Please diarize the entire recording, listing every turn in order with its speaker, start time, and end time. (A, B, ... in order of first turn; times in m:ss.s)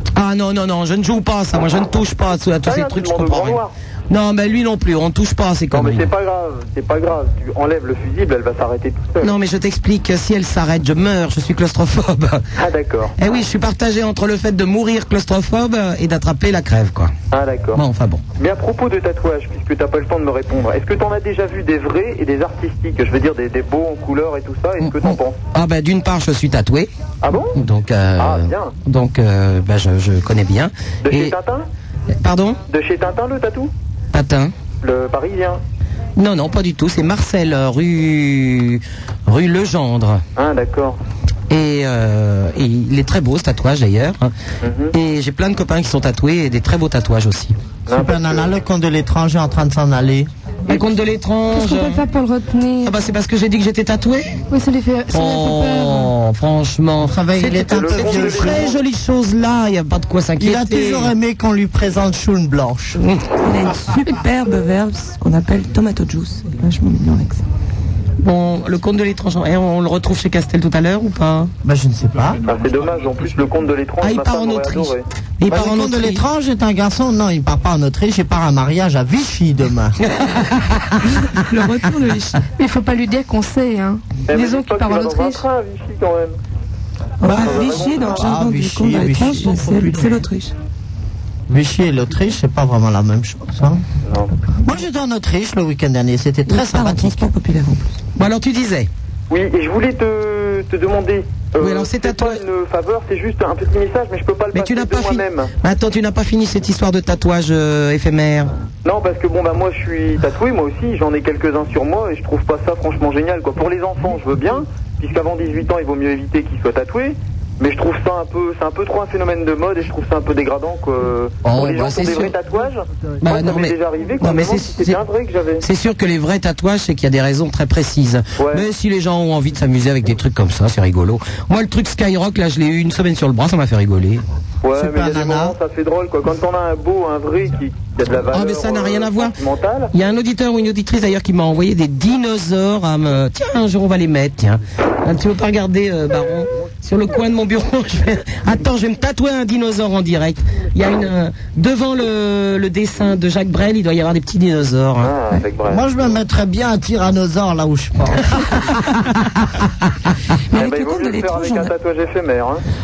0:00.2-0:06.1 A
0:02.6-0:03.7 B
0:05.7-0:09.3 B
0:09.2-0:12.4 A
0:12.6-0:13.1 B
0:13.2-0:17.1 A
0:17.3-0:17.8 B
0:17.7-0:18.2 A
0:18.4-0:25.4 B
0:24.8-0:26.9 A
0:27.2-0:27.6 B
0:27.5-0:31.4 A
0:28.2-0:28.7 B
0:31.0-0:31.7 B
0:32.2-0:32.6 A
0:32.7-0:33.7 B
0:34.1-0:34.5 A
0:34.8-0:35.6 B
0:36.2-0:40.2 A
0:40.4-0:41.0 B
0:41.5-0:44.3 A
0:44.6-0:44.9 B
0:44.9-0:47.5 A
0:47.9-0:48.5 B
0:47.9-0:50.3 C
0:50.7-0:52.0 A
0:51.5-0:53.0 D
0:52.8-0:54.4 A
0:54.5-0:56.1 D
0:55.1-1:01.1 A
0:57.0-0:58.7 C
0:57.6-0:58.8 B
1:00.4-1:03.0 C
1:03.0-1:03.2 A
1:03.4-1:07.4 E
1:08.2-1:11.5 A
1:11.6-1:12.4 C
1:12.4-1:15.0 B
1:14.0-1:16.2 A
1:15.5-1:20.0 C
1:20.1-1:21.0 A
1:21.0-1:22.4 E
1:22.6-1:25.4 D
1:24.3-1:26.4 B
1:27.2-1:30.5 E
1:27.2-1:30.2 C
1:27.3-1:28.3 B
1:31.5-1:33.8 C
1:34.0-1:34.3 B
1:34.6-1:37.3 C
1:36.5-1:38.0 E
1:38.2-1:38.9 A
1:39.3-1:45.5 B
1:41.6-1:42.4 A
1:44.5-1:48.5 A
1:48.8-2:05.6 B
2:01.4-2:02.3 A
2:03.2-2:05.0 A
2:05.6-2:14.2 A
2:08.4-2:08.6 B
2:14.6-2:19.9 B
2:14.7-2:15.6 C
2:18.3-2:19.3 A
2:19.9-2:35.1 A
2:35.0-2:35.8 B
2:35.7-2:38.4 C
2:38.6-2:39.4 A
2:40.5-2:41.7 E
2:40.5-2:42.6 B